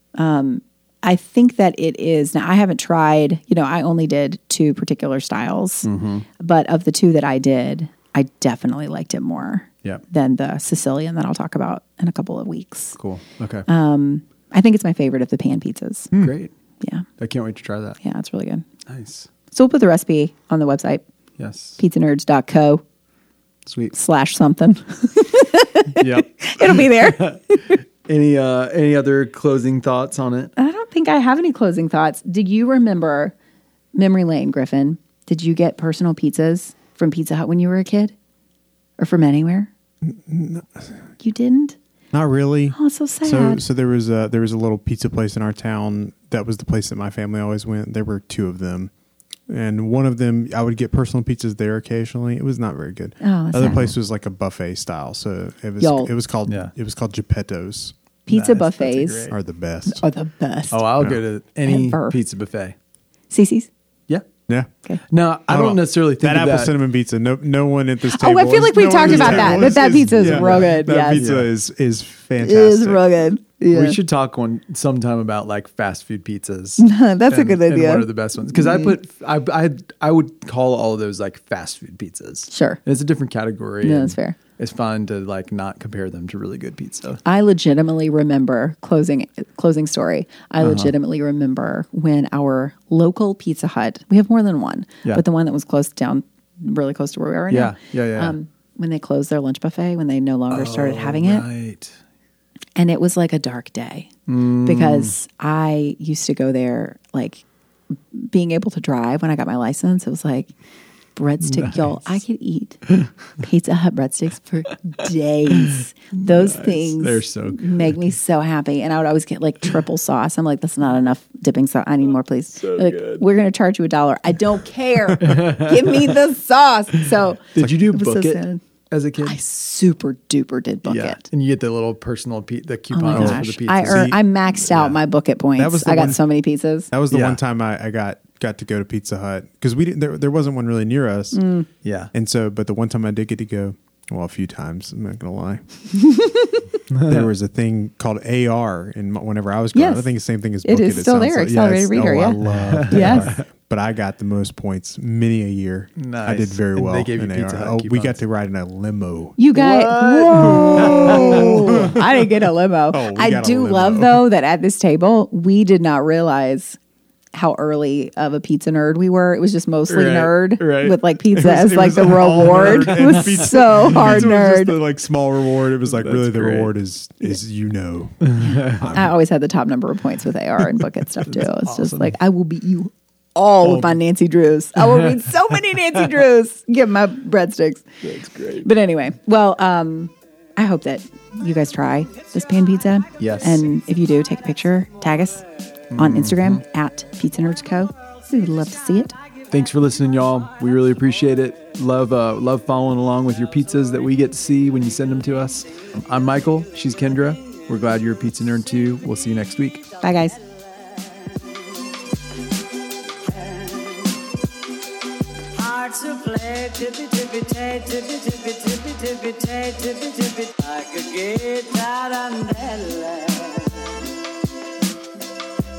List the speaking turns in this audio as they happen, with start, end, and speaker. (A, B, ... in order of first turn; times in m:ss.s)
0:00.2-0:13.0 A
0:05.8-0:06.2 B
0:13.0-0:13.7 B
0:13.7-0:16.1 A
0:16.1-0:16.5 B
0:16.8-0:17.1 A
0:17.2-0:18.0 B
0:18.0-0:18.7 A
0:18.8-0:19.3 B
0:19.5-0:21.0 A
0:21.4-0:21.8 B
0:21.8-0:22.8 A
0:23.6-0:23.9 B
0:23.9-0:27.8 A
0:26.0-0:30.5 B
0:30.6-0:33.3 A
0:33.9-0:38.1 A
0:39.0-0:39.7 A
0:40.1-0:40.9 C
0:41.2-0:41.8 A
0:42.1-0:48.9 C
0:42.7-0:43.6 A
0:49.5-0:57.9 C
0:53.2-0:53.9 A
0:55.8-0:56.1 A
0:56.4-0:56.7 B
0:58.3-0:59.3 A
0:58.3-0:59.4 B
0:59.3-1:00.0 C
0:59.8-1:00.8 A
1:00.7-1:02.7 B
1:01.6-1:02.2 A
1:03.3-1:03.7 A
1:05.1-1:06.8 B
1:05.5-1:13.0 C
1:08.0-1:11.2 A
1:09.0-1:11.5 B
1:12.4-1:14.0 A
1:13.7-1:27.2 B
1:16.8-1:18.9 A
1:22.5-1:22.8 A
1:23.8-1:24.4 A
1:27.2-1:41.5 A
1:30.6-1:30.9 B
1:37.5-1:38.3 B
1:40.5-1:42.0 B
1:42.8-1:50.5 A
1:44.3-1:45.1 B
1:51.1-2:08.6 A
1:51.4-1:52.0 B
1:55.6-1:58.0 B
2:02.6-2:03.2 B
2:05.2-2:06.2 B
2:07.5-2:09.4 B
2:09.2-2:11.2 A
2:10.8-2:14.1 B
2:12.9-2:16.9 A
2:13.1-2:14.2 C
2:14.7-2:15.0 B
2:15.6-2:16.2 C
2:16.9-2:21.4 C
2:17.1-2:17.4 B
2:21.3-2:21.7 A
2:21.8-2:22.1 B
2:22.1-2:25.6 C
2:26.0-2:26.5 A
2:26.9-2:27.3 B
2:27.0-2:39.4 C
2:29.7-2:30.1 A
2:30.6-2:32.4 A
2:32.5-2:33.4 B
2:32.9-2:33.4 A
2:36.0-2:38.2 B
2:39.4-2:46.8 A
2:39.5-2:42.0 B
2:40.3-2:42.2 C
2:42.9-2:44.3 C
2:47.3-2:54.8 A
2:49.9-2:51.0 B
2:51.3-2:59.1 C
2:52.4-2:54.2 B
2:55.8-2:56.7 B
2:58.3-2:58.9 B
2:58.9-3:08.0 A
3:01.2-3:02.1 B
3:03.6-3:04.0 B
3:04.8-3:05.8 B
3:08.0-3:08.7 B
3:08.6-3:15.4 A
3:13.2-3:13.6 B
3:15.9-3:16.6 B
3:15.9-3:19.2 A
3:19.5-3:29.8 B
3:30.0-3:30.4 A
3:33.2-3:34.2 D
3:35.5-3:44.0 D